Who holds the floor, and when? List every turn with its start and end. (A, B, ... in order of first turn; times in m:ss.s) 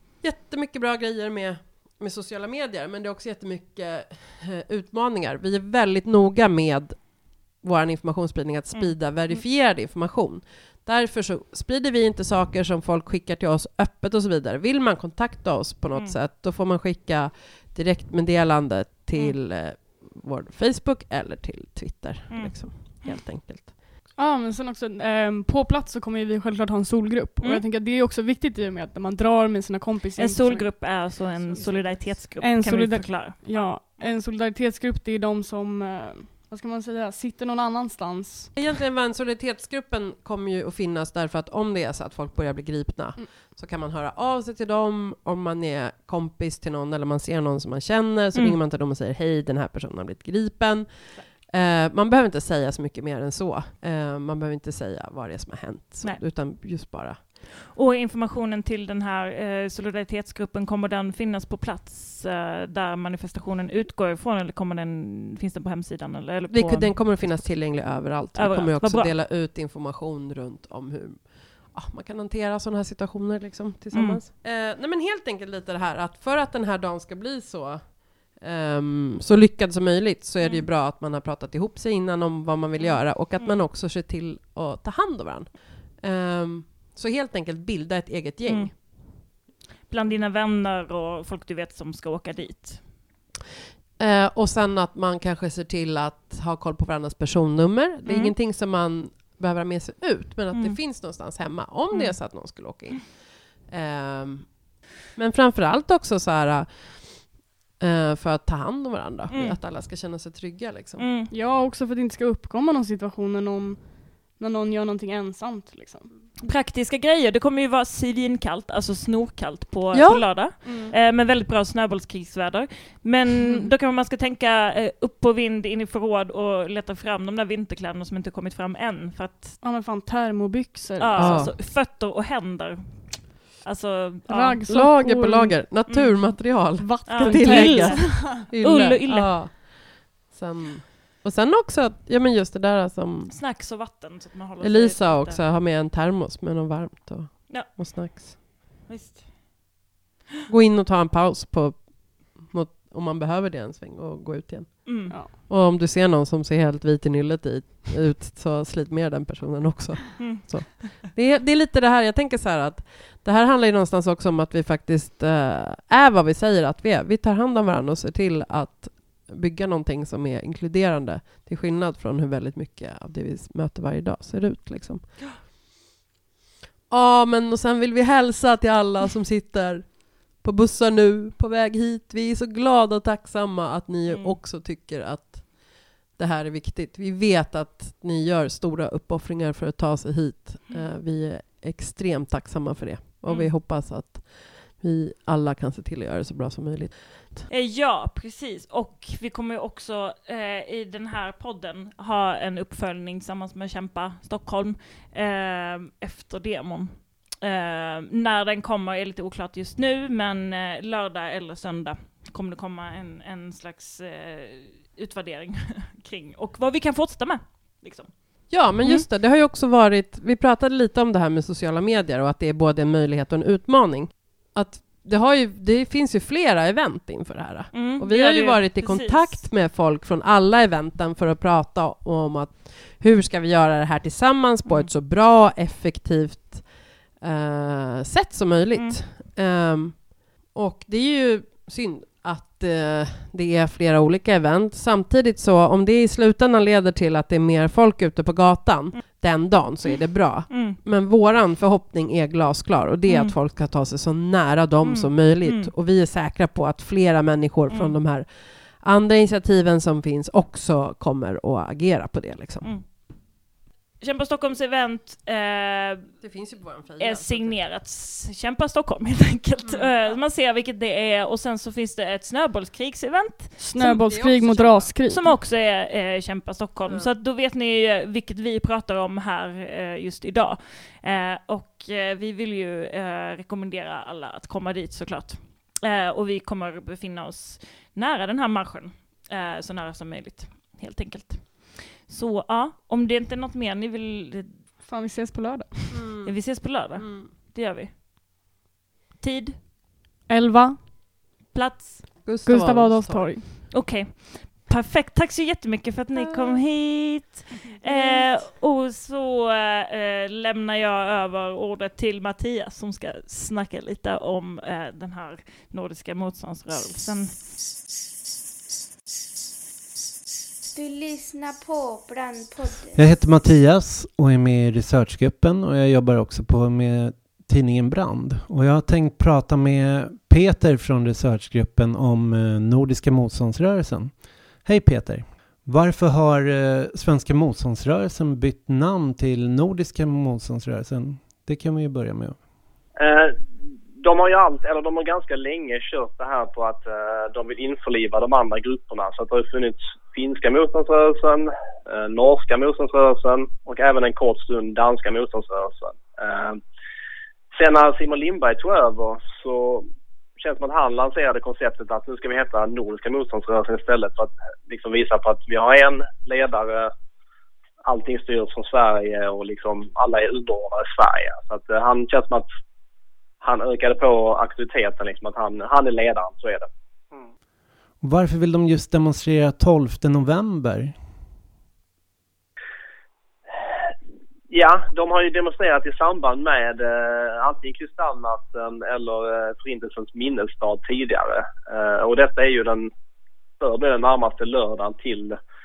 0:00.2-0:23.9 A
0:08.7-0:09.4 B
0:22.3-0:23.2 B
0:24.2-0:38.6 C
0:30.2-0:34.2 B
0:38.6-0:57.2 A
0:56.0-1:09.1 B
1:06.5-1:28.8 A
1:13.9-1:14.2 B
1:20.4-1:20.7 B
1:22.8-1:23.6 B
1:28.5-1:32.9 B
1:34.0-1:51.1 A
1:38.0-1:38.3 B
1:40.5-1:40.8 B
1:41.9-1:42.5 B
1:49.3-1:49.6 B
1:51.0-1:51.3 B
1:51.3-1:56.1 C
1:56.4-2:09.6 B
1:59.9-2:00.6 A
2:00.6-2:00.9 C
2:03.4-2:03.7 C
2:09.6-2:11.6 C
2:11.0-2:14.6 B
2:11.2-2:11.5 A
2:14.3-2:15.9 C
2:14.7-2:23.8 A
2:15.9-2:19.4 B
2:16.8-2:18.5 C
2:23.3-2:25.4 B
2:24.6-2:28.4 A
2:27.5-2:29.6 B
2:30.5-2:55.5 A
2:34.9-2:35.2 B
2:35.1-2:35.3 C
2:40.2-2:41.0 B
2:56.9-3:17.5 A
3:04.1-3:04.4 B
3:13.3-3:13.5 B
3:17.5-3:39.1 B
3:38.5-4:22.8 A
3:47.7-3:49.5 B
4:10.5-4:10.8 B
4:13.1-4:13.4 B
4:14.8-4:15.7 B
4:17.7-4:18.0 B
4:22.6-4:23.2 B
4:24.0-4:26.2 B
4:26.2-4:27.6 A
4:27.0-4:34.0 B
4:29.6-4:30.0 A
4:33.6-4:35.4 C
4:33.8-4:35.0 A
4:35.0-4:54.7 B
4:36.9-4:37.1 A
4:54.8-4:56.1 C
4:55.9-4:57.3 A
4:56.3-4:57.9 B
4:59.2-4:59.6 B
5:00.3-5:00.8 C
5:01.5-5:02.3 B
5:02.2-5:03.4 A
5:02.4-5:03.5 C
5:03.7-5:17.4 B
5:06.1-5:06.6 A
5:07.9-5:08.1 A
5:20.7-5:23.1 D
5:23.0-5:42.4 E
5:43.0-5:43.4 F
5:44.0-5:56.6 F
5:57.5-5:59.9 F
6:00.4-6:06.9 F
6:07.8-6:12.4 F
6:13.4-6:16.7 F
6:18.0-6:21.0 E
6:24.5-6:32.9 F
6:33.6-6:35.4 F